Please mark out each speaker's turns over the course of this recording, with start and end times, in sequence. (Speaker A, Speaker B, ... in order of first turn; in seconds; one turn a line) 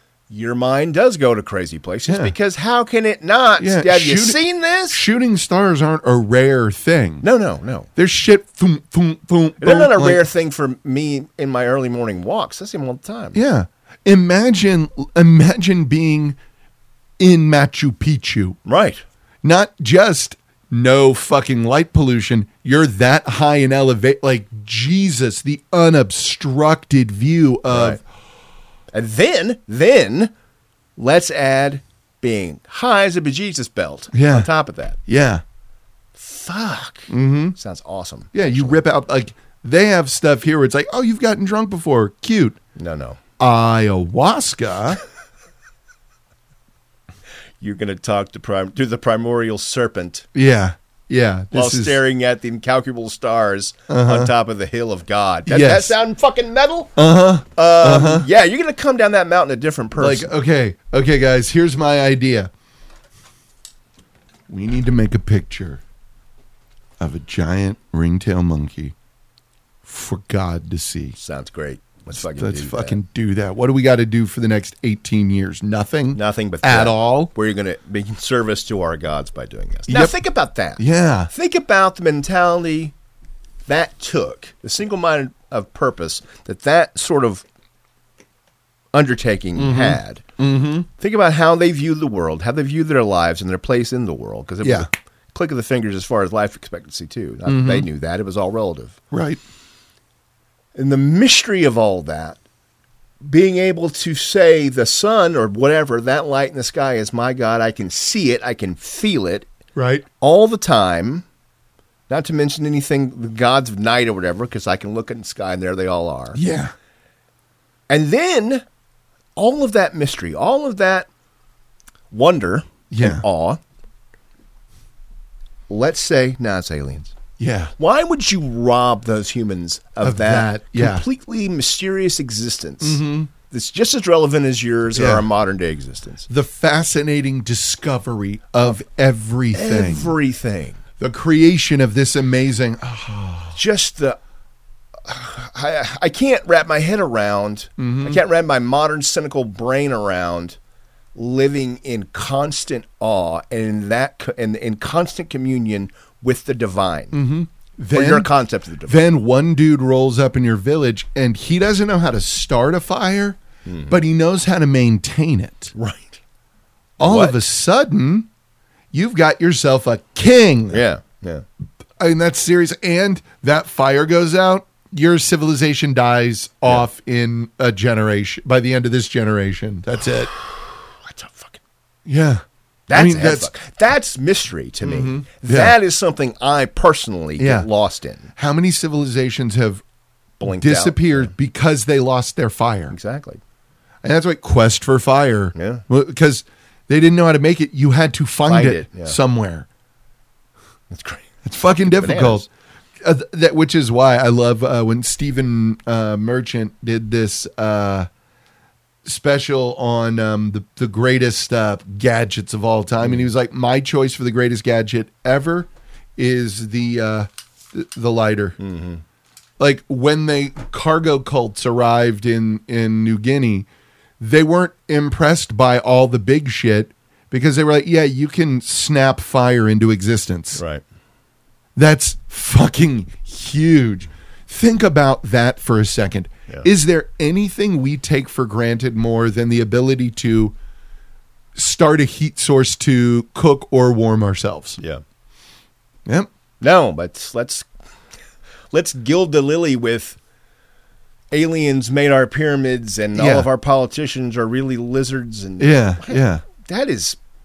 Speaker A: 0.3-5.0
Speaker B: 2.1-2.3
Speaker B: 3.6-7.2
Speaker A: 7.2-7.9
Speaker B: 8.0-10.2
Speaker A: 9.6-13.4
Speaker B: 13.3-16.4
Speaker B: 17.2-18.6
Speaker A: 18.6-19.0
Speaker B: 19.4-28.0
Speaker A: 27.7-28.0
Speaker A: 28.9-30.3
Speaker A: 31.0-35.0
Speaker B: 34.1-34.5
Speaker B: 35.1-35.4
Speaker A: 36.1-38.8
Speaker B: 37.1-37.5
Speaker B: 38.3-42.6
Speaker A: 42.8-43.2
Speaker B: 43.4-45.0
Speaker A: 47.6-50.2
Speaker B: 50.3-52.0
Speaker A: 51.5-57.0
Speaker B: 53.9-54.3
Speaker B: 55.5-56.0
Speaker B: 57.0-58.2
Speaker A: 57.5-60.3
Speaker B: 60.0-62.5
Speaker B: 64.5-65.8
Speaker B: 67.0-68.9
Speaker B: 69.8-71.2
Speaker A: 71.2-73.0
Speaker B: 72.2-77.3
Speaker A: 76.1-82.9
Speaker B: 79.9-80.2
Speaker B: 80.8-81.3
Speaker A: 83.7-87.4
Speaker A: 88.9-90.2
Speaker B: 89.5-90.9
Speaker A: 91.0-99.0
Speaker B: 94.6-94.9
Speaker B: 97.5-97.8
Speaker B: 99.1-99.4
Speaker A: 100.7-102.4
Speaker A: 103.2-109.5
Speaker B: 109.8-110.0
Speaker A: 110.2-111.2
Speaker A: 112.1-116.4
Speaker B: 116.3-116.7
Speaker A: 117.9-118.6
Speaker A: 119.3-121.1
Speaker A: 122.1-123.6
Speaker B: 122.9-123.2
Speaker A: 125.7-127.1
Speaker B: 127.4-127.7
Speaker A: 127.8-136.3
Speaker B: 130.0-131.1
Speaker B: 132.8-133.3
Speaker B: 134.9-135.3
Speaker B: 136.3-140.2
Speaker A: 139.5-140.8
Speaker B: 141.0-143.6
Speaker A: 143.5-144.2
Speaker A: 145.0-150.6
Speaker B: 147.8-148.2
Speaker A: 151.1-157.2
Speaker B: 157.1-158.3
Speaker A: 157.9-159.0
Speaker B: 158.9-165.7
Speaker A: 163.7-164.0
Speaker A: 165.7-166.2
Speaker B: 167.0-168.3
Speaker A: 167.0-167.4
Speaker B: 168.9-170.8
Speaker A: 170.7-171.4
Speaker B: 172.0-180.3
Speaker A: 180.3-181.6
Speaker B: 182.1-183.5
Speaker A: 182.9-188.3
Speaker B: 184.8-185.7
Speaker B: 187.4-187.7
Speaker B: 188.3-189.8
Speaker A: 190.4-191.3
Speaker B: 190.4-192.9
Speaker A: 192.9-193.4
Speaker B: 194.0-199.7
Speaker A: 195.5-195.8
Speaker A: 198.4-199.2
Speaker A: 200.9-202.4
Speaker B: 201.4-202.4
Speaker B: 203.0-208.1
Speaker B: 209.0-218.6
Speaker A: 213.0-213.3
Speaker A: 218.6-219.0
Speaker B: 219.6-223.7
Speaker B: 224.2-230.6
Speaker A: 230.6-230.8
Speaker B: 231.8-240.5
Speaker B: 241.5-244.8
Speaker A: 246.6-247.7
Speaker A: 248.7-250.2
Speaker A: 251.3-257.2
Speaker B: 253.1-253.5
Speaker B: 255.6-256.4